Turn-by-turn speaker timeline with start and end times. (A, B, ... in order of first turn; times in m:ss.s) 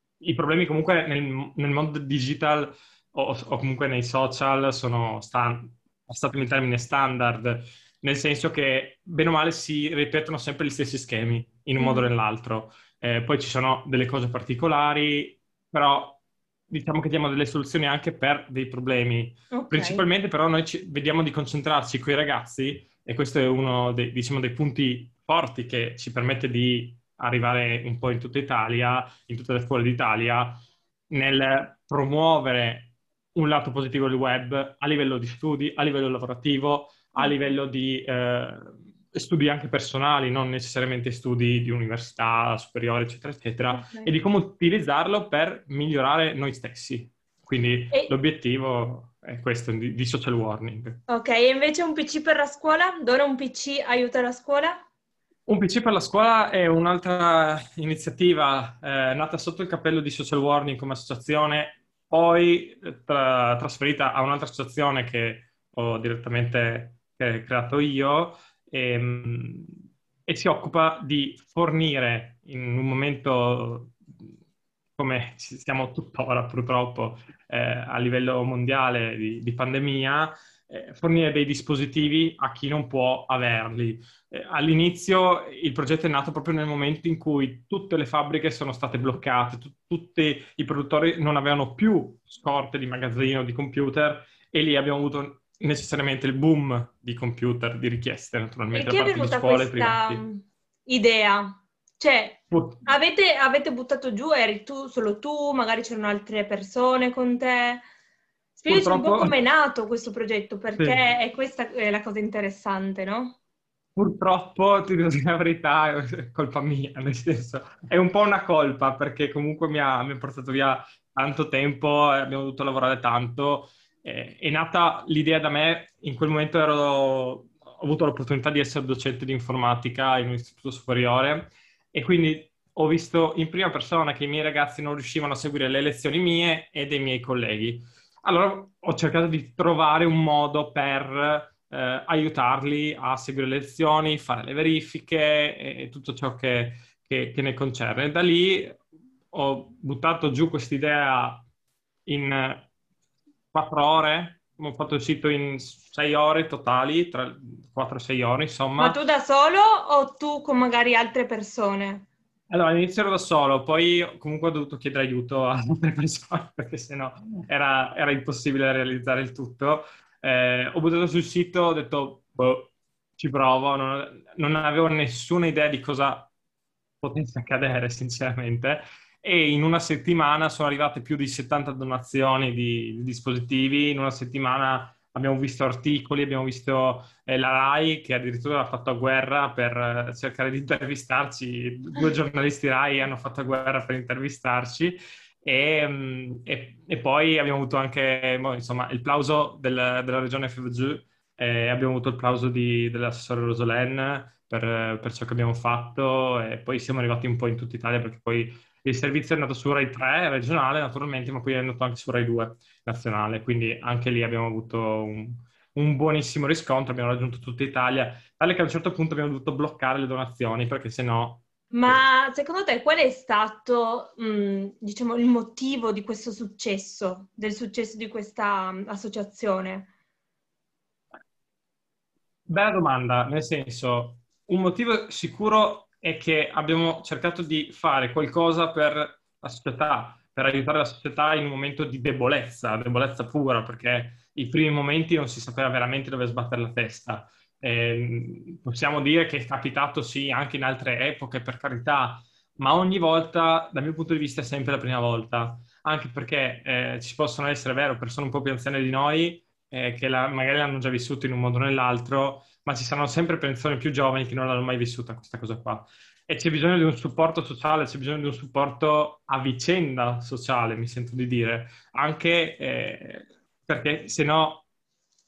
0:00.2-0:30.6 A
0:11.8-0:12.1 B
0:19.5-0:20.0 B
0:31.1-0:51.0 A
0:43.7-0:44.1 B
0:51.1-0:54.8 B
0:55.5-1:14.0 A
1:15.0-1:40.2 A
1:38.7-1:47.9 B
1:42.5-1:42.8 A
1:48.6-1:53.4 B
1:48.7-1:49.4 A
1:54.0-2:28.8 A
2:29.3-2:31.4 A
2:32.1-2:32.7 A
2:33.5-2:39.0 A
2:38.8-2:42.1 B
2:42.5-2:56.3 A
2:57.0-3:42.0 A
3:41.7-3:49.9 B
3:52.5-4:34.6 A